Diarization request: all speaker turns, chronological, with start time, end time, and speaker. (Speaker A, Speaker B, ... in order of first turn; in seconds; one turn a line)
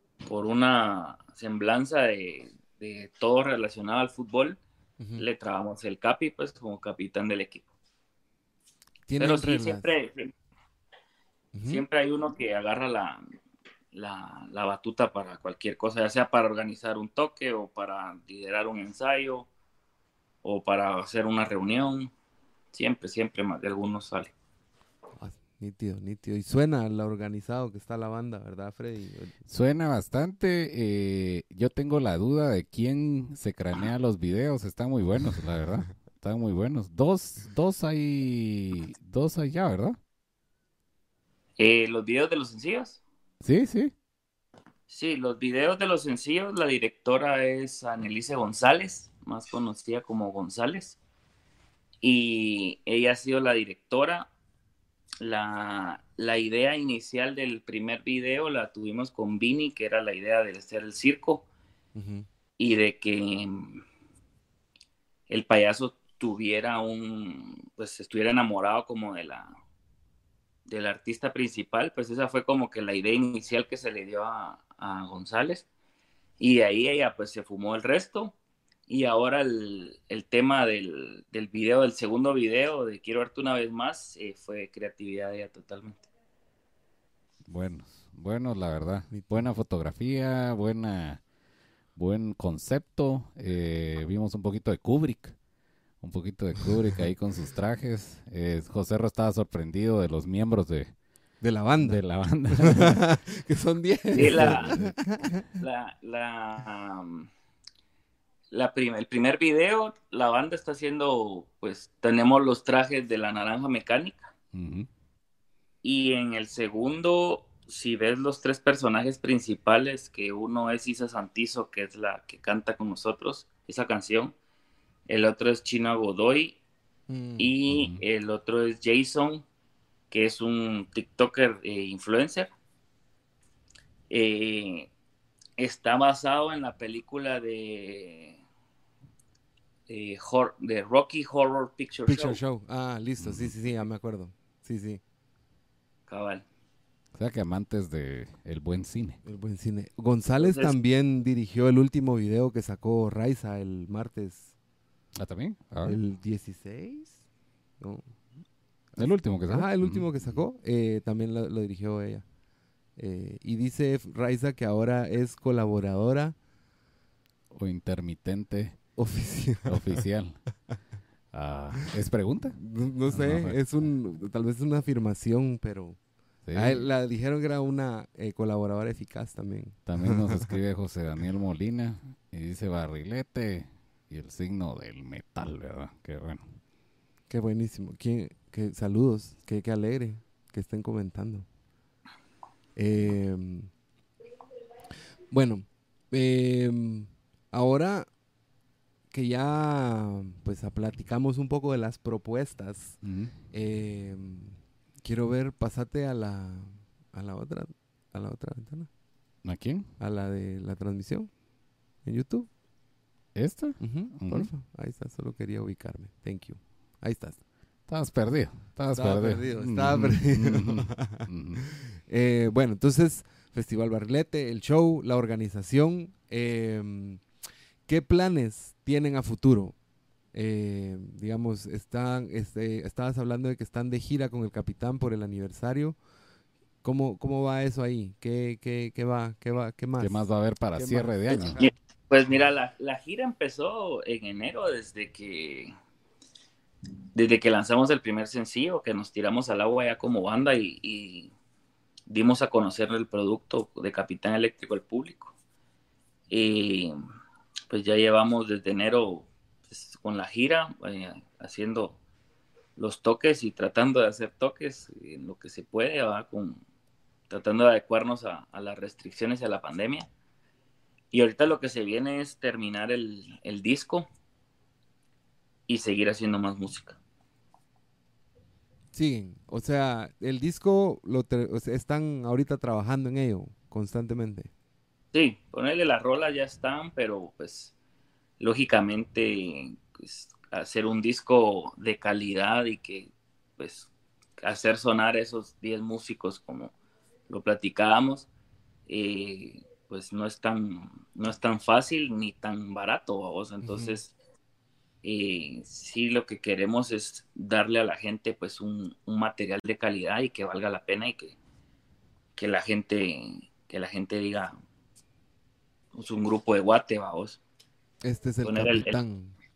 Speaker A: 0.2-4.6
Speaker B: 5.0-5.2
Speaker A: 5.2-7.6
Speaker B: 9.1-9.9
Speaker A: 9.2-10.3
Speaker B: 11.5-11.8
Speaker A: 11.6-13.2
Speaker A: 13.9-19.5
Speaker A: 20.4-22.1
Speaker A: 22.7-24.3
Speaker B: 25.2-29.4
Speaker C: 29.5-40.0
Speaker A: 41.6-43.0
Speaker C: 43.4-43.9
Speaker A: 44.9-51.0
Speaker A: 52.0-54.3
Speaker A: 55.2-61.5
Speaker B: 61.9-62.3
Speaker A: 62.6-63.8
Speaker A: 65.3-69.5
Speaker A: 70.7-75.7
Speaker A: 76.4-78.4
Speaker A: 78.9-86.0
Speaker C: 87.5-91.2
Speaker B: 89.1-89.5
Speaker C: 92.0-95.4
Speaker C: 96.0-100.9
Speaker B: 101.4-102.0
Speaker C: 101.8-103.0
Speaker B: 102.6-105.5
Speaker A: 104.1-104.8
Speaker C: 104.2-105.4
Speaker A: 105.6-107.3
Speaker A: 108.5-114.3
Speaker C: 114.5-114.9
Speaker A: 115.8-124.3
Speaker A: 125.1-126.6
Speaker B: 127.1-127.5
Speaker A: 127.4-129.4
Speaker C: 127.7-128.0
Speaker A: 130.1-132.5
Speaker A: 134.1-134.9
Speaker A: 135.6-138.4
Speaker A: 139.9-142.4
Speaker B: 142.1-145.0
Speaker C: 143.2-143.5
Speaker A: 146.1-146.4
Speaker C: 147.1-149.2
Speaker B: 149.2-154.5
Speaker A: 150.4-150.8
Speaker C: 155.2-156.0
Speaker B: 155.8-157.2
Speaker B: 157.8-158.1
Speaker B: 158.9-162.2
Speaker C: 159.0-160.4
Speaker B: 163.0-166.4
Speaker C: 167.5-168.8
Speaker B: 168.9-170.0
Speaker C: 169.7-170.4
Speaker C: 171.3-172.6
Speaker B: 172.5-176.0
Speaker C: 173.1-173.6
Speaker C: 176.4-176.8
Speaker B: 176.6-180.6
Speaker C: 179.9-186.4
Speaker B: 187.3-191.5
Speaker B: 192.8-193.7
Speaker B: 195.3-198.1
Speaker B: 199.1-208.9
Speaker C: 203.0-203.3
Speaker C: 209.4-209.9
Speaker B: 210.0-211.3
Speaker B: 212.0-212.5
Speaker C: 213.3-214.5
Speaker B: 213.8-217.4
Speaker C: 217.9-221.6
Speaker B: 218.9-227.2
Speaker B: 227.9-229.8
Speaker B: 230.3-236.0
Speaker B: 236.8-241.7
Speaker C: 240.0-241.6
Speaker A: 241.6-245.7
Speaker A: 247.1-251.3
Speaker A: 252.1-255.3
Speaker A: 256.3-256.9
Speaker A: 257.7-262.0
Speaker A: 262.8-266.6
Speaker A: 267.3-270.1
Speaker A: 271.1-274.1
Speaker A: 275.7-277.0
Speaker B: 278.9-284.5
Speaker A: 285.1-287.7
Speaker A: 288.4-296.7
Speaker A: 297.3-298.3
Speaker A: 298.9-304.1
Speaker A: 305.0-311.4
Speaker A: 312.4-314.6
Speaker A: 315.9-317.4
Speaker B: 318.0-319.3
Speaker A: 318.4-319.0